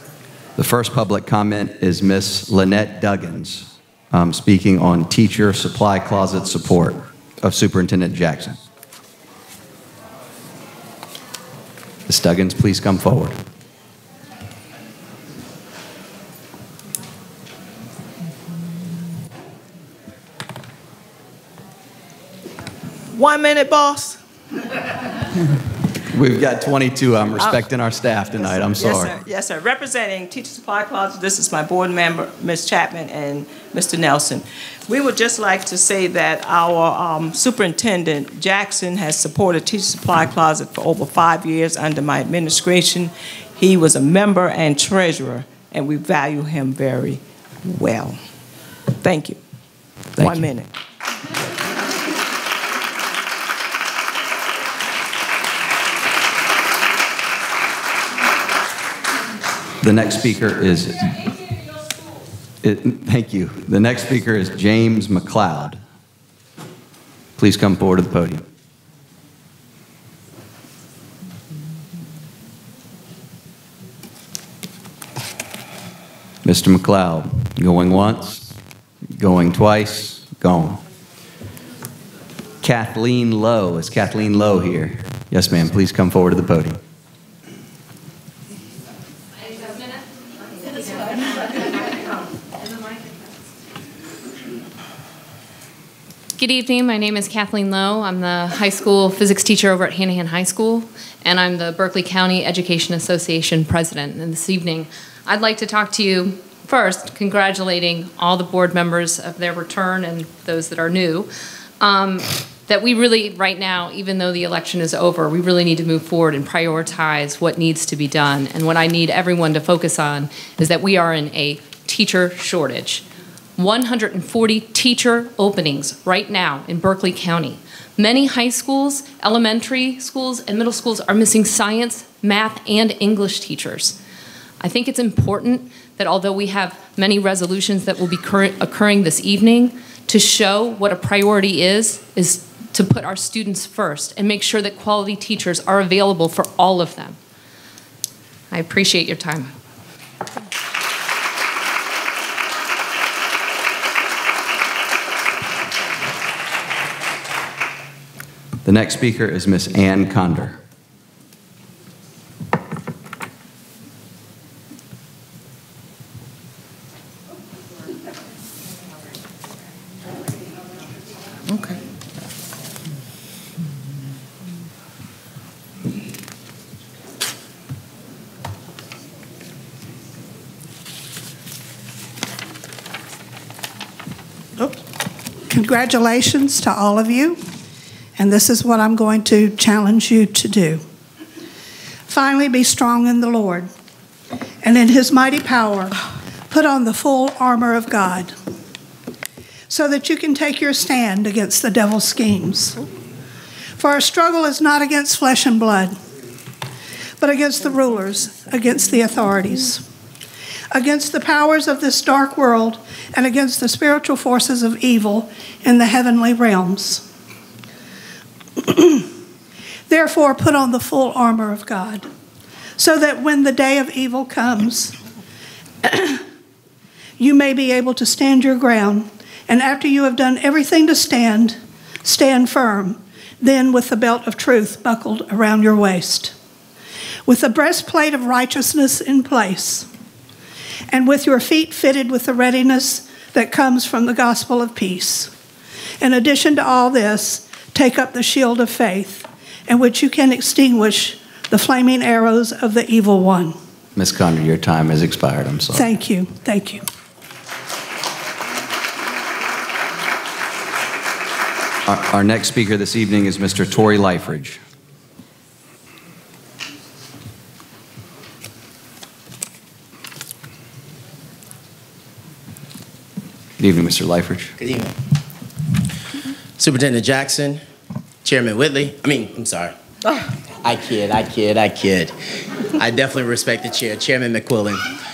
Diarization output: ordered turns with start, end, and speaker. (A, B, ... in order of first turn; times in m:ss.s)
0:00.6-0:08.6 A
0:12.1-0:13.4 A
0:23.2-0:24.2 B
0:26.1-0:29.2 A
0:27.4-0:27.6 B
0:28.4-0:48.2 B
0:49.0-0:49.4 B
0:50.2-0:50.7 B
0:59.8-1:01.1 A
1:02.6-1:05.8 A
1:07.4-1:08.4 A
1:16.4-1:18.5 A
1:19.1-1:20.8 A
1:22.6-1:26.8 A
1:36.4-2:03.0 C
2:03.6-2:14.0 C
2:14.6-2:27.2 C
2:28.5-2:29.5 C
2:38.6-2:40.6 A
2:51.5-2:51.8 B
3:05.5-3:07.4 D
3:08.2-3:10.8 D
3:12.1-3:13.7 D
3:14.6-3:16.0 D
3:16.5-3:18.4 D
3:19.7-3:22.8 D
3:23.8-3:26.0 D
3:27.2-3:29.8 D
3:30.7-3:37.0 D
3:38.7-3:39.0 D
3:39.9-3:42.1 D
3:42.8-3:45.0 D
3:45.8-3:46.2 D
3:47.2-3:56.4 D
3:57.3-3:59.9 D
4:00.9-4:05.3 D
4:06.0-4:13.6 D
4:14.0-4:15.9 A
4:15.7-4:16.8 D
4:21.9-4:24.6 A
4:33.6-4:34.5 A
4:34.6-4:34.9 E
4:36.6-4:37.6 E
4:38.2-4:39.8 E
4:40.6-4:42.1 E
4:42.8-4:44.8 E